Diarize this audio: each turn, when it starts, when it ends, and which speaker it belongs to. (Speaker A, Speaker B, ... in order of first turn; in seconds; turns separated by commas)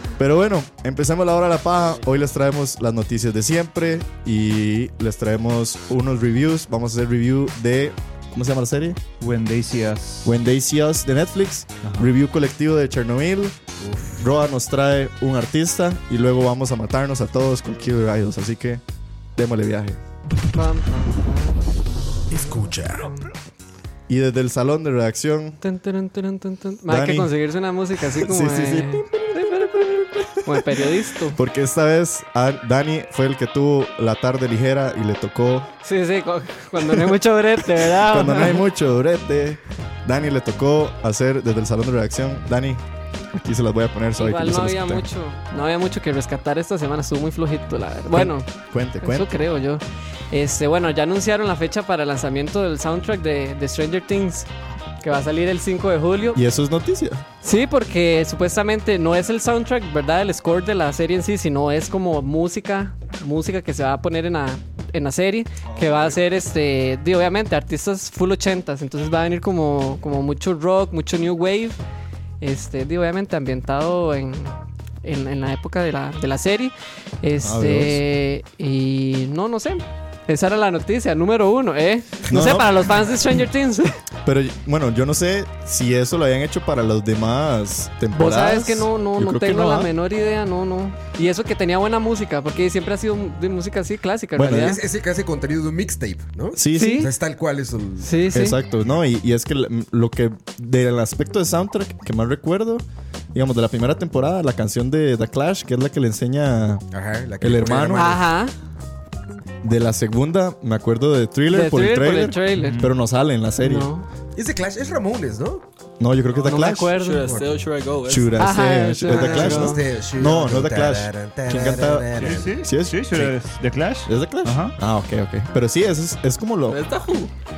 Speaker A: 0.2-9.0, Speaker B: 9.2-10.3, Speaker A: 10.2-13.6, Speaker B: 11.8-12.1, Speaker C: 13.8-14.2, Speaker A: 14.2-18.8, Speaker A: 19.4-20.0, Speaker D: 20.5-23.3, Speaker C: 22.3-23.1, Speaker A: 24.1-25.6, Speaker D: 25.6-31.4, Speaker A: 26.9-27.4, Speaker A: 27.9-35.7, Speaker D: 35.8-38.6, Speaker A: 36.8-37.2, Speaker A: 37.7-45.0, Speaker D: 44.2-48.5, Speaker A: 48.1-49.4, Speaker D: 49.0-54.5, Speaker D: 55.0-56.4, Speaker A: 56.3-57.2, Speaker D: 57.4-71.8, Speaker A: 65.7-66.2, Speaker D: 72.4-84.0, Speaker A: 77.4-78.0, Speaker A: 82.3-83.1, Speaker A: 84.2-89.9, Speaker D: 88.1-94.8, Speaker A: 94.4-94.8, Speaker C: 94.6-98.2, Speaker A: 96.5-97.1, Speaker D: 96.7-97.1, Speaker D: 98.0-98.6, Speaker A: 98.3-106.8, Speaker C: 106.9-108.3, Speaker A: 107.4-108.1, Speaker D: 108.0-108.5, Speaker A: 109.6-113.9, Speaker D: 111.5-112.8, Speaker B: 112.6-112.9, Speaker D: 113.6-114.1, Speaker C: 114.3-115.6, Speaker A: 116.0-117.0, Speaker D: 116.5-117.2, Speaker E: 116.9-118.4, Speaker C: 117.2-117.5, Speaker A: 118.1-123.3, Speaker D: 118.4-119.8, Speaker C: 119.1-122.5, Speaker B: 122.2-124.7, Speaker A: 124.1-126.8, Speaker E: 126.7-127.3